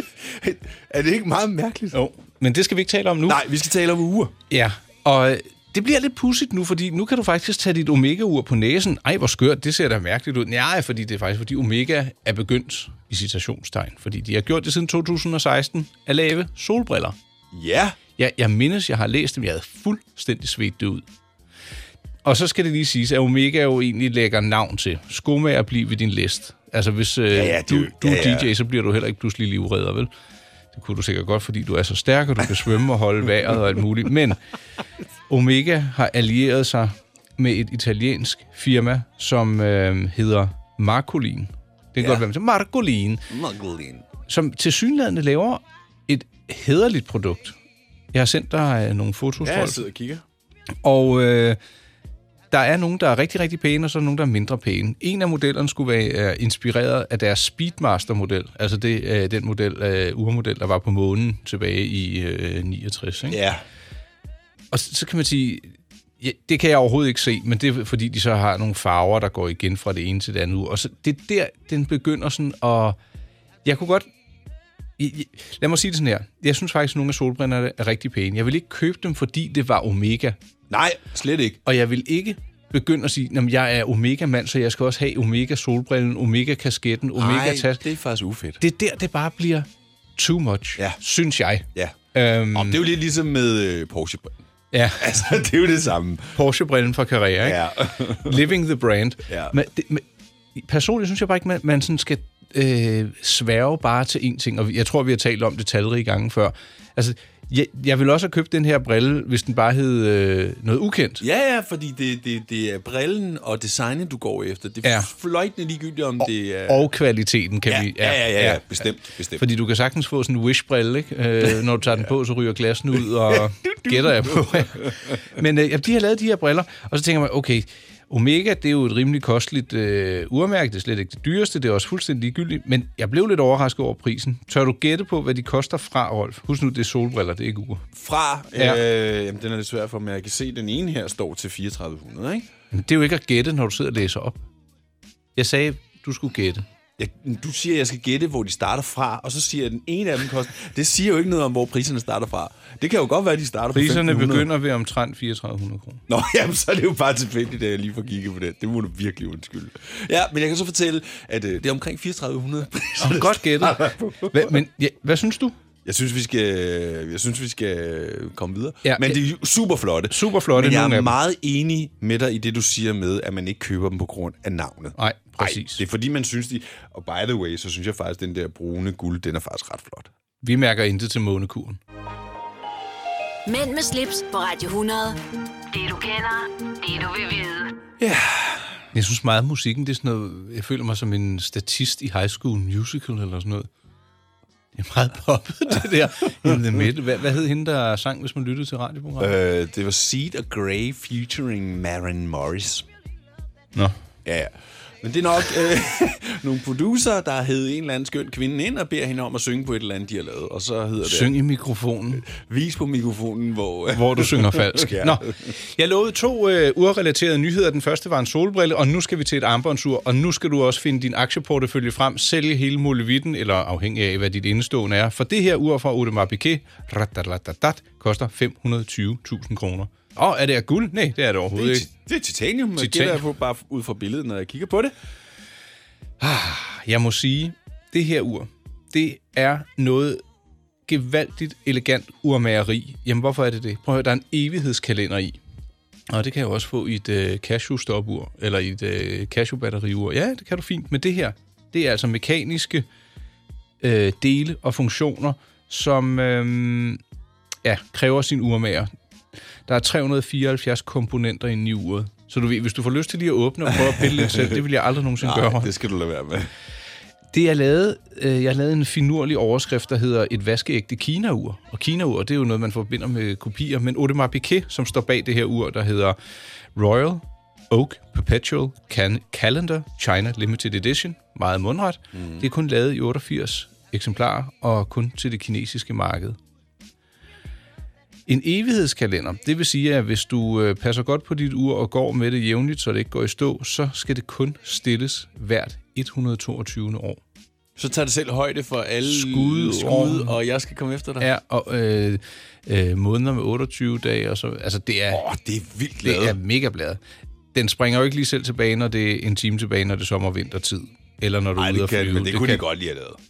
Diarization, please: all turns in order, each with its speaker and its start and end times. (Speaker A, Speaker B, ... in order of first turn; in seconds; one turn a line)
Speaker A: 0.2-2.0
Speaker B: 1.9-3.4
Speaker A: 3.3-4.3
Speaker B: 4.5-17.1
Speaker A: 17.5-18.0
Speaker B: 18.2-21.0
Speaker B: 22.2-30.1
Speaker A: 27.3-28.5
Speaker B: 30.7-34.4
Speaker B: 35.3-43.2
Speaker A: 42.0-42.2
Speaker A: 43.3-44.1
Speaker B: 44.3-47.6
Speaker B: 48.1-49.8
Speaker A: 49.4-50.2
Speaker B: 50.8-51.6
Speaker B: 52.5-63.4
Speaker A: 63.3-63.6
Speaker B: 64.7-73.0
Speaker B: 73.6-74.1
Speaker B: 75.0-80.4
Speaker A: 80.7-81.6
Speaker B: 81.6-87.8
Speaker A: 87.1-88.6
Speaker B: 88.6-92.8
Speaker A: 92.5-94.4
Speaker B: 94.7-95.1
Speaker A: 95.0-96.4
Speaker B: 96.3-97.6
Speaker A: 97.4-98.5
Speaker B: 98.2-100.0
Speaker A: 99.3-99.5
Speaker B: 100.5-111.2
Speaker A: 111.2-116.9
Speaker B: 114.8-115.1
Speaker B: 116.7-118.8
Speaker A: 117.7-119.4
Speaker B: 119.4-137.9
Speaker A: 123.3-124.9
Speaker A: 137.9-142.5
Speaker B: 138.5-138.8
Speaker B: 142.7-144.4
Speaker B: 145.4-146.6
Speaker A: 147.0-154.5
Speaker B: 153.7-156.0
Speaker A: 156.1-164.6
Speaker B: 163.0-165.6
Speaker A: 165.8-180.1
Speaker B: 168.8-169.2
Speaker B: 170.1-171.2
Speaker B: 175.0-175.8
Speaker B: 180.4-181.8
Speaker C: 183.5-185.2
Speaker C: 185.7-187.7
Speaker A: 188.0-188.8
Speaker B: 188.9-193.7
Speaker B: 194.8-199.3
Speaker A: 199.2-202.9
Speaker A: 204.2-211.4
Speaker B: 211.0-212.2
Speaker A: 212.2-215.5
Speaker B: 213.9-231.9
Speaker A: 231.5-234.9
Speaker B: 232.8-233.2
Speaker B: 236.2-240.2
Speaker B: 240.9-245.4
Speaker B: 246.1-252.9
Speaker B: 253.8-257.0
Speaker B: 257.6-258.9
Speaker B: 259.7-265.7
Speaker A: 263.7-264.6
Speaker A: 265.2-266.5
Speaker B: 267.3-276.2
Speaker B: 276.8-286.4
Speaker A: 282.1-282.4
Speaker B: 288.3-297.2
Speaker A: 297.8-301.3
Speaker B: 299.1-300.3
Speaker B: 301.2-305.2
Speaker A: 305.1-306.4
Speaker B: 306.0-307.0
Speaker B: 307.5-312.6
Speaker A: 311.6-313.2